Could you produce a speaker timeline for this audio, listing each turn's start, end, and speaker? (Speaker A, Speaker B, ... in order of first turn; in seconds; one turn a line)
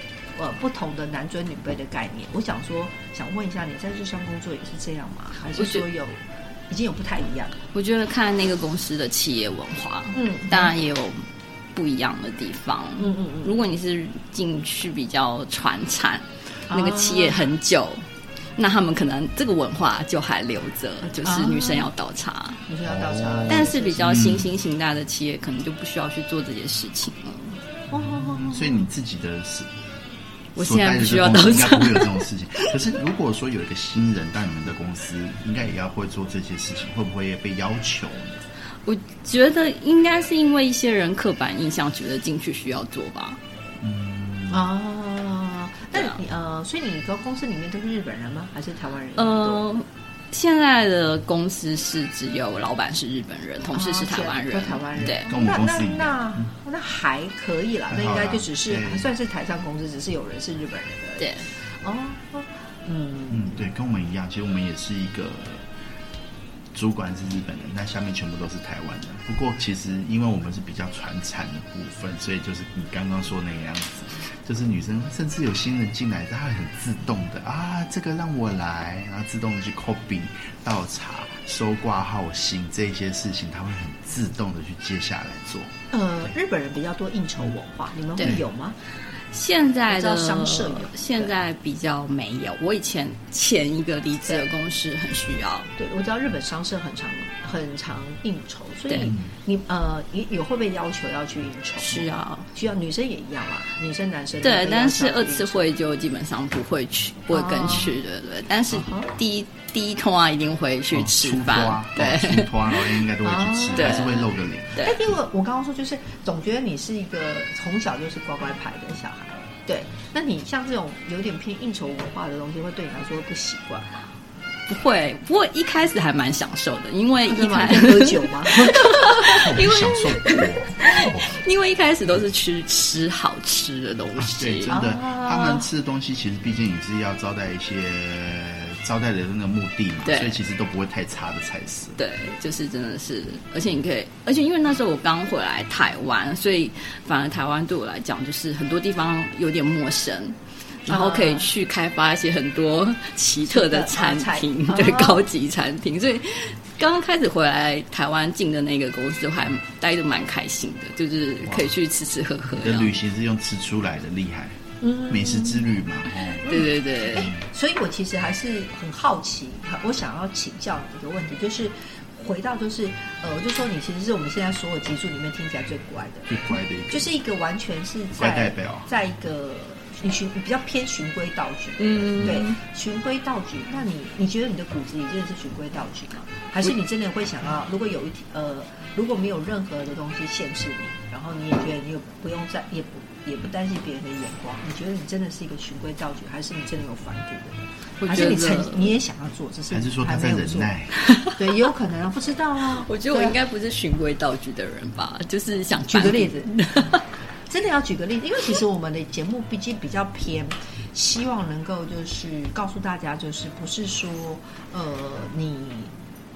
Speaker A: 0.4-7.6
Speaker B: 5.6-5.8
Speaker B: 7.7-11.2
Speaker A: 10.2-10.8
Speaker B: 11.8-18.0
Speaker A: 13.0-13.6
Speaker A: 16.7-17.5
Speaker B: 18.6-22.6
Speaker A: 21.2-21.9
Speaker A: 22.7-24.2
Speaker C: 22.9-24.5
Speaker B: 23.5-27.6
Speaker A: 27.9-28.9
Speaker C: 28.3-29.7
Speaker B: 30.6-32.7
Speaker C: 30.6-38.4
Speaker B: 38.9-43.4
Speaker C: 43.8-44.7
Speaker A: 44.5-49.6
Speaker B: 45.9-46.2
Speaker B: 49.2-55.3
Speaker A: 53.7-63.7
Speaker C: 55.2-56.5
Speaker C: 57.9-59.1
Speaker B: 61.2-61.5
Speaker C: 63.3-65.7
Speaker C: 66.7-85.7
Speaker A: 85.9-88.8
Speaker B: 89.3-95.7
Speaker A: 89.9-91.3
Speaker A: 95.8-105.7
Speaker C: 99.0-99.3
Speaker B: 101.8-102.5
Speaker B: 104.4-113.0
Speaker A: 107.3-108.0
Speaker A: 108.7-109.1
Speaker C: 110.9-114.9
Speaker A: 113.2-114.2
Speaker B: 113.7-115.0
Speaker A: 114.8-123.9
Speaker B: 124.7-134.8
Speaker A: 127.2-129.4
Speaker C: 129.2-131.4
Speaker C: 134.2-142.0
Speaker A: 134.7-135.7
Speaker B: 140.1-140.4
Speaker B: 142.0-163.0
Speaker A: 150.9-151.5
Speaker A: 153.5-155.2
Speaker C: 161.5-161.7
Speaker C: 162.6-167.4
Speaker A: 164.8-165.8
Speaker B: 166.4-167.3
Speaker A: 166.4-176.3
Speaker C: 176.3-177.1
Speaker A: 176.9-200.8
Speaker C: 178.2-178.9
Speaker B: 181.8-182.6
Speaker B: 198.0-199.0
Speaker C: 199.7-200.9
Speaker B: 200.9-201.3
Speaker A: 201.4-203.4
Speaker B: 202.6-207.1
Speaker A: 205.9-206.5
Speaker A: 207.5-215.9